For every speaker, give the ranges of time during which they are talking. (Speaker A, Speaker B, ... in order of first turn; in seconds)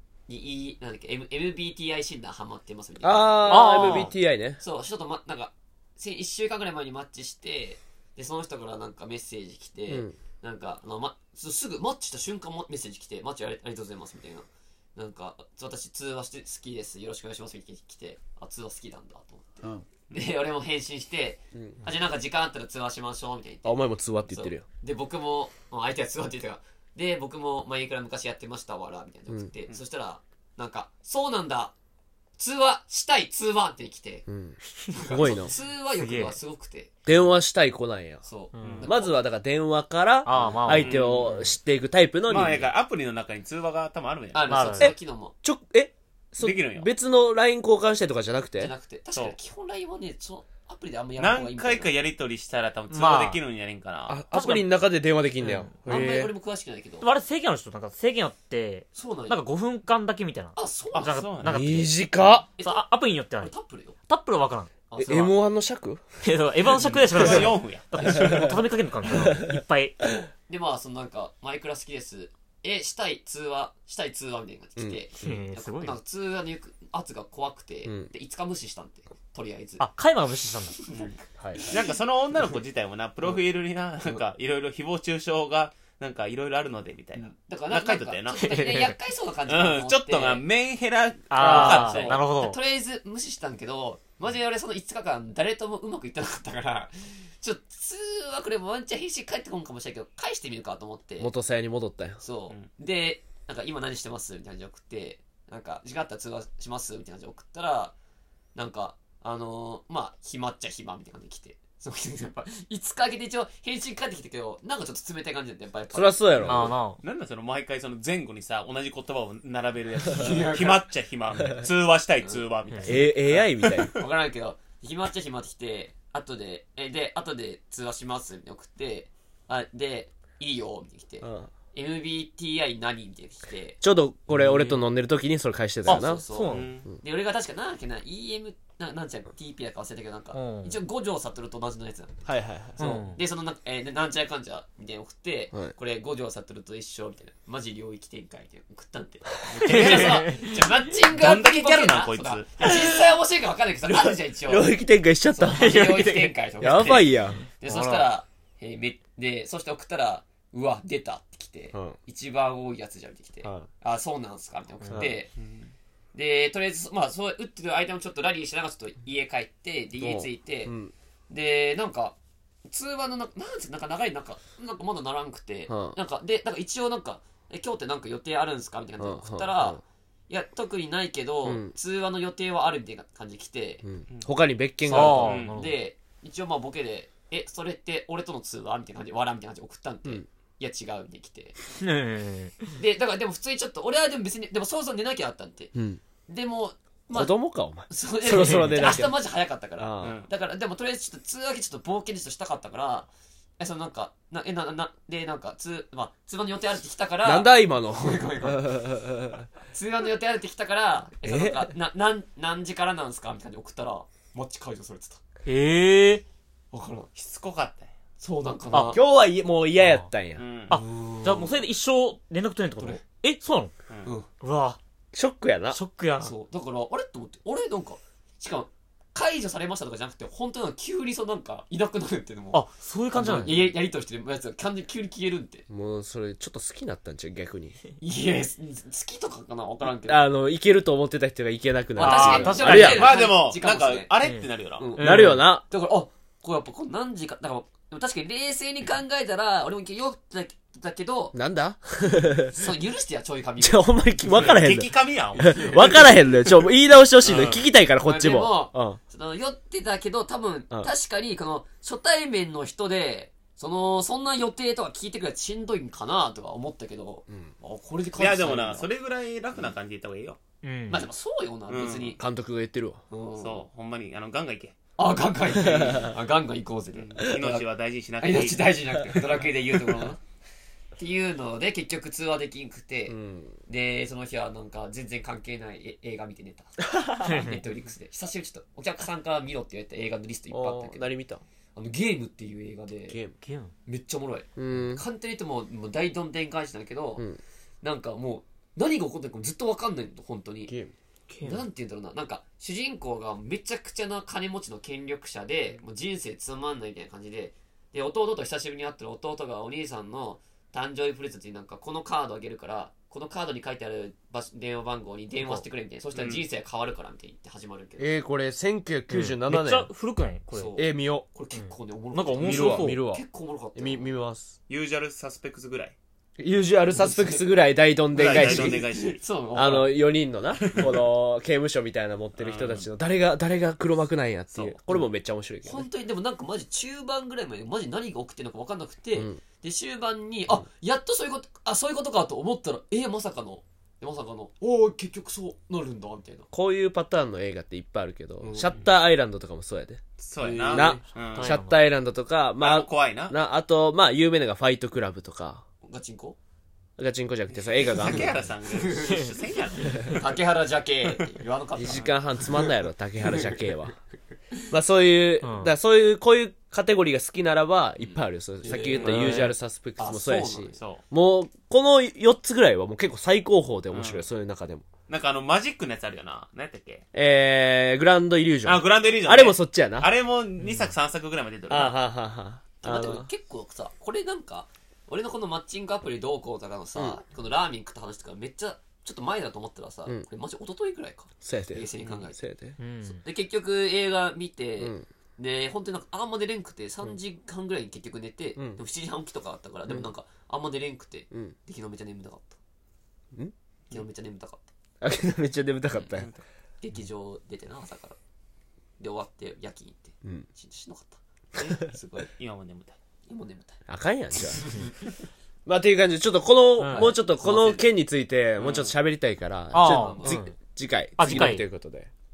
Speaker A: 0.3-31.7, 32.4-34.2, 34.9-37.0, 38.2-39.2, 44.3-45.3, 48.6-51.9, 55.8-57.1, 58.9-59.4, 60.5-61.2, 62.6-62.8, 63.4-64.0, 64.9-65.3, 70.5-79.9, 80.8-81.9, 87.2-90.4, 91.3-101.3, 102.2-107.9, 108.5-116.7, 120.1-120.8, 122.2-133.8, 135.8-154.8, 155.3-165.3, 166.1-170.7, 171.3-183.8, 184.8-191.6, 192.8-195.7, 196.3-197.3, 197.9-203.1, 203.6-208.7, 209.7-215.2, 216.7-217.1, 218.2-219.0, 220.7-221.6, 226.2-235.6, 238.0-240.2, 242.0-244.1, 244.8-251.3, 252.4-254.5, 255.4-256.1, 258.0-268.9, 270.9-272.2, 273.1-273.6, 275.0-277.6, 278.2-280.2, 281.0-291.1, 291.8-293.2, 293.9-297.3, 297.8-300.7, 301.4-318.1, 320.5-324.1, 326.9-327.5, 328.3-330.0, 335.6-346.5, 348.4-348.7, 350.4-351.0, 355.8-356.4, 357.8-359.4, 359.9-363.6, 368.6-369.3, 370.0-370.8, 382.8-392.4, 393.2-402.6, 403.9-404.7, 405.9-406.2, 406.8-408.2, 409.0-412.3, 413.3-413.8, 414.3-415.0, 416.9-417.9, 419.8-420.5
Speaker B: 3.0-4.6, 9.9-10.2, 23.6-24.6, 34.3-35.5, 37.0-38.2, 38.8-42.7, 44.8-48.7, 54.1-56.3, 61.4-62.5, 65.0-66.0, 68.0-68.5, 69.0-69.6, 77.8-78.1, 81.4-81.7, 101.2-102.2, 115.9-116.8, 122.8-123.9, 131.2-131.5, 133.8-136.2, 142.2-142.8, 154.4-156.0, 156.6-157.4, 161.7-162.0, 164.9-165.2, 170.0-170.9, 175.7-176.0, 179.0-179.8, 181.4-181.7, 183.8-185.3, 195.7-196.0, 197.1-199.2, 199.8-200.2, 207.2-209.5, 211.2-211.7, 218.9-220.4, 225.1-225.8, 235.7-237.8, 239.8-243.1, 245.0-245.6, 251.3-252.6, 253.6-259.0, 272.2-273.0, 283.1-283.6, 286.9-287.5, 290.5-291.4, 293.1-293.3, 294.6-295.0, 300.6-300.9, 318.0-319.9, 320.8-321.2, 322.4-323.2, 323.8-324.5, 326.4-328.9, 329.5-335.9, 339.1-339.4, 346.5-350.0, 350.7-355.6, 357.0-358.4, 361.8-363.9, 364.7-374.8, 377.1-380.1, 381.7-383.3, 391.4-392.8, 394.8-395.1, 398.6-398.8, 405.0-406.4, 413.9-414.9, 415.6-422.1
Speaker C: 3.5-4.1, 36.0-36.4, 38.6-38.9, 40.2-41.5, 44.5-44.9, 52.9-53.4, 54.3-54.6, 55.4-55.7, 57.0-61.9, 62.5-63.5, 64.1-64.7, 66.2-70.1, 75.2-76.0, 79.8-80.8, 88.4-88.9, 91.3-92.6, 116.5-117.0, 122.7-123.0, 134.3-134.8, 135.8-136.7, 140.3-140.8, 142.8-143.2, 149.7-150.2, 155.5-156.3, 157.5-158.1, 184.9-185.8, 191.8-192.7, 198.3-199.1, 215.4-216.2, 218.7-219.0, 219.8-220.1, 220.7-223.7, 224.4-224.8, 225.7-226.3, 232.5-233.6, 241.9-243.1, 244.2-245.4, 270.6-271.1, 287.2-287.6, 293.4-293.7, 301.3-301.6, 319.1-320.7, 321.5-323.0, 350.7-351.7, 365.4-365.7, 369.0-369.5, 380.6-380.9, 392.8-393.2, 416.8-417.1, 419.7-420.5, 421.2-421.6
Speaker D: 40.7-41.5, 42.3-44.7, 46.4-46.9, 51.2-54.2, 60.9-61.6, 66.7-68.5, 80.9-81.2, 81.7-88.5, 89.5-92.2, 117.0-124.0, 136.5-136.9, 149.5-150.4, 151.1-152.5, 165.4-165.7, 185.2-185.6, 200.0-200.3, 217.1-217.9, 220.3-220.8, 223.9-224.1, 242.5-244.9, 254.2-256.6, 257.2-257.6, 268.2-270.4, 271.7-272.2, 273.4-274.8, 276.9-279.2, 316.1-316.4, 324.7-325.9, 328.1-329.2, 330.6-331.1, 332.4-332.9, 350.2-351.6, 352.6-353.4, 357.8-360.3, 361.9-362.1, 368.0-369.4, 370.7-371.0, 373.9-374.3, 375.1-377.1, 378.6-381.9, 411.6-413.0, 418.6-418.9